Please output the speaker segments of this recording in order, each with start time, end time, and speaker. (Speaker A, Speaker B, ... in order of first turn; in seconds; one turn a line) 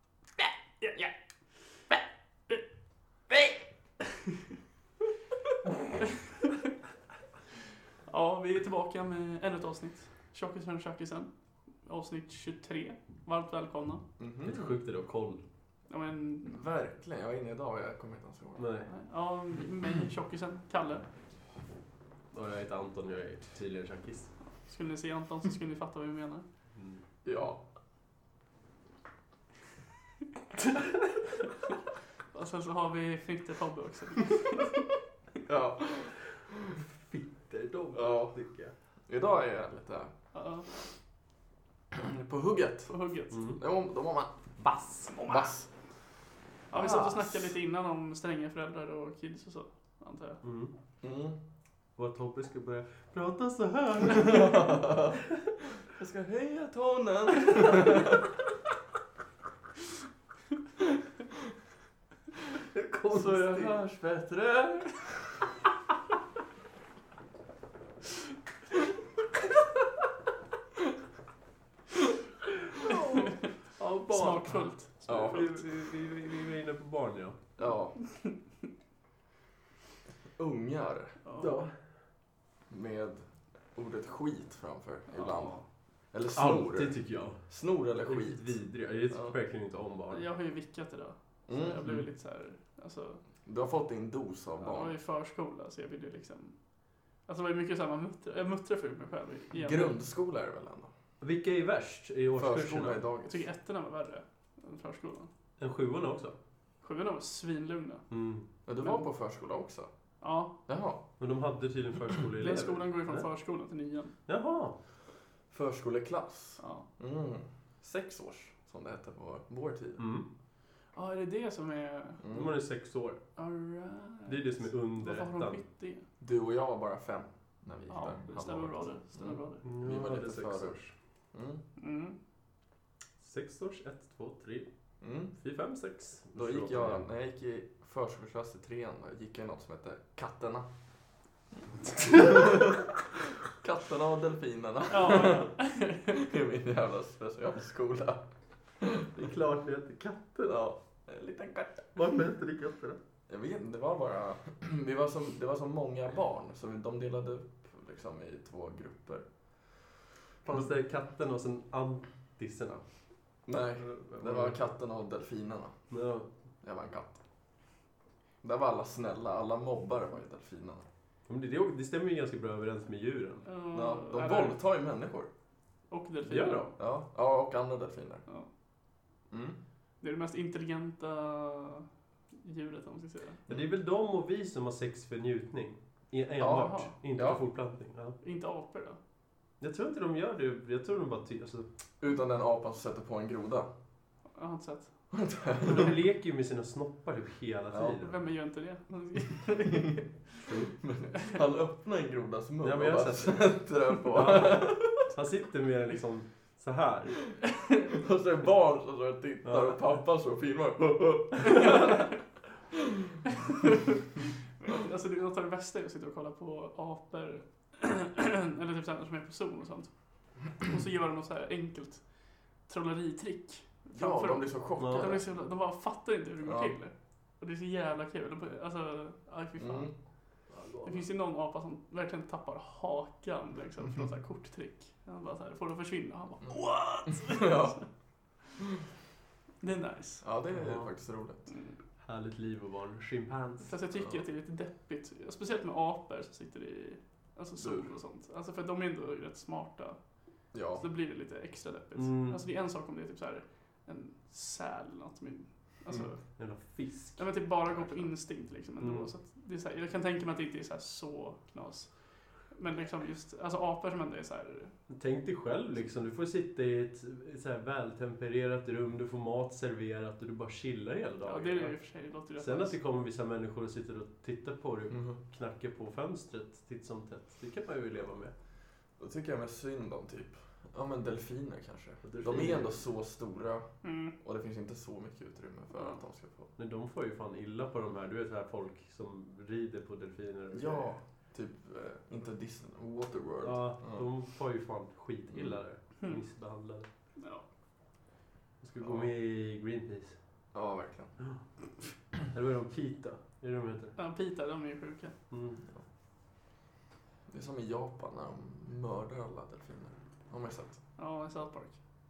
Speaker A: 0.8-1.1
Speaker A: 8.1-11.3
Speaker A: 11.8-14.0
Speaker B: 14.2-14.8
Speaker C: 14.4-15.4
Speaker A: 15.9-16.6
Speaker B: 16.4-18.7
Speaker C: 18.6-18.9
Speaker A: 18.9-21.0
Speaker C: 22.3-24.3
Speaker A: 24.6-26.4
Speaker C: 26.8-27.0
Speaker B: 27.2-27.6
Speaker A: 32.3-34.9
Speaker B: 35.4-36.2
Speaker C: 36.8-38.7
Speaker B: 37.9-38.4
Speaker B: 39.1-40.1
Speaker A: 40.3-40.7
Speaker B: 41.9-43.0
Speaker A: 42.9-43.5
Speaker C: 43.3-43.6
Speaker B: 43.6-44.5
Speaker C: 44.6-45.1
Speaker A: 45.2-45.5
Speaker B: 45.2-45.7
Speaker A: 46.7-50.4
Speaker B: 46.7-47.5
Speaker C: 50.4-50.7
Speaker B: 51.0-51.4
Speaker C: 52.0-54.9
Speaker B: 54.1-55.2
Speaker B: 55.8-58.3
Speaker C: 62.7-63.8
Speaker B: 63.1-65.2
Speaker C: 72.7-74.6
Speaker A: 74.1-75.6
Speaker B: 75.1-75.5
Speaker C: 75.1-77.4
Speaker B: 77.6-78.0
Speaker B: 80.4-81.2
Speaker A: 81.2-81.7
Speaker C: 81.4-81.7
Speaker B: 82.7-85.6
Speaker A: 85.1-85.6
Speaker B: 86.1-88.5
Speaker C: 86.4-87.4
Speaker C: 88.0-90.3
Speaker A: 90.1-93.2
Speaker B: 91.5-91.8
Speaker B: 93.5-95.0
Speaker A: 94.6-96.6
Speaker A: 97.3-100.0
Speaker B: 99.5-100.9
Speaker C: 101.2-103.0
Speaker B: 102.4-103.4
Speaker A: 103.3-105.3
Speaker C: 105.6-106.4
Speaker A: 106.8-108.1
Speaker C: 108.1-108.5
Speaker B: 108.7-109.9
Speaker A: 110.2-110.5
Speaker B: 110.7-111.0
Speaker C: 111.2-113.3
Speaker A: 112.4-114.2
Speaker C: 114.3-114.8
Speaker B: 115.5-120.0
Speaker A: 116.6-116.9
Speaker C: 120.0-120.3
Speaker A: 120.9-122.2
Speaker B: 122.2-122.5
Speaker C: 122.3-123.2
Speaker A: 123.4-126.0
Speaker C: 124.3-125.6
Speaker B: 126.2-130.8
Speaker A: 127.9-129.6
Speaker C: 129.6-130.9
Speaker B: 131.3-131.6
Speaker A: 131.8-132.2
Speaker C: 133.2-134.7
Speaker B: 135.0-135.3
Speaker C: 135.3-137.1
Speaker B: 136.3-140.7
Speaker B: 141.9-145.5
Speaker A: 144.9-146.3
Speaker B: 146.1-148.2
Speaker B: 148.8-149.1
Speaker C: 149.1-150.7
Speaker B: 150.5-151.9
Speaker C: 151.9-153.0
Speaker B: 153.3-159.2
Speaker C: 160.4-162.8
Speaker B: 163.5-165.7
Speaker C: 163.8-164.6
Speaker C: 165.9-166.3
Speaker B: 166.6-167.2
Speaker B: 168.4-170.8
Speaker C: 171.3-173.4
Speaker A: 173.4-174.6
Speaker B: 173.7-175.3
Speaker A: 175.9-176.7
Speaker C: 176.3-176.7
Speaker B: 176.8-178.2
Speaker B: 179.3-179.6
Speaker A: 180.0-181.9
Speaker A: 182.4-183.4
Speaker C: 183.5-188.2
Speaker B: 186.4-187.4
Speaker A: 186.6-186.9
Speaker A: 188.2-189.0
Speaker C: 189.6-191.7
Speaker B: 192.0-193.7
Speaker A: 194.3-194.9
Speaker B: 195.1-196.0
Speaker C: 195.6-198.2
Speaker B: 197.7-198.0
Speaker A: 198.0-200.1
Speaker C: 200.4-200.7
Speaker B: 200.8-205.1
Speaker C: 202.6-203.5
Speaker C: 204.2-207.2
Speaker B: 207.9-212.1
Speaker C: 209.4-209.8
Speaker A: 211.5-212.1
Speaker A: 213.5-222.1
Speaker A: 222.6-229.9
Speaker B: 223.9-225.2
Speaker C: 224.8-225.1
Speaker B: 226.4-226.7
Speaker B: 229.6-229.9
Speaker C: 230.5-231.1
Speaker A: 230.8-237.8
Speaker B: 237.1-237.8
Speaker A: 239.6-240.2
Speaker B: 240.2-241.4
Speaker C: 240.5-240.9
Speaker C: 242.0-243.7
Speaker A: 243.6-250.0
Speaker B: 247.6-247.9
Speaker B: 250.5-250.8
Speaker A: 250.7-256.2
Speaker C: 252.0-252.4
Speaker C: 256.4-257.3
Speaker A: 257.2-264.7
Speaker B: 257.7-258.1
Speaker C: 258.8-259.1
Speaker C: 264.9-271.8
Speaker A: 271.3-272.8
Speaker C: 272.4-278.3
Speaker B: 274.9-275.2
Speaker B: 279.0-286.5
Speaker C: 282.0-282.7
Speaker A: 283.8-284.1
Speaker C: 286.6-290.9
Speaker B: 290.5-294.1
Speaker C: 293.4-296.9
Speaker B: 295.3-295.6
Speaker A: 297.2-297.4
Speaker C: 298.6-300.2
Speaker B: 298.8-299.1
Speaker B: 300.5-301.1
Speaker C: 302.3-304.0
Speaker A: 304.0-305.1
Speaker C: 305.3-305.6
Speaker B: 307.3-310.8
Speaker A: 311.0-311.8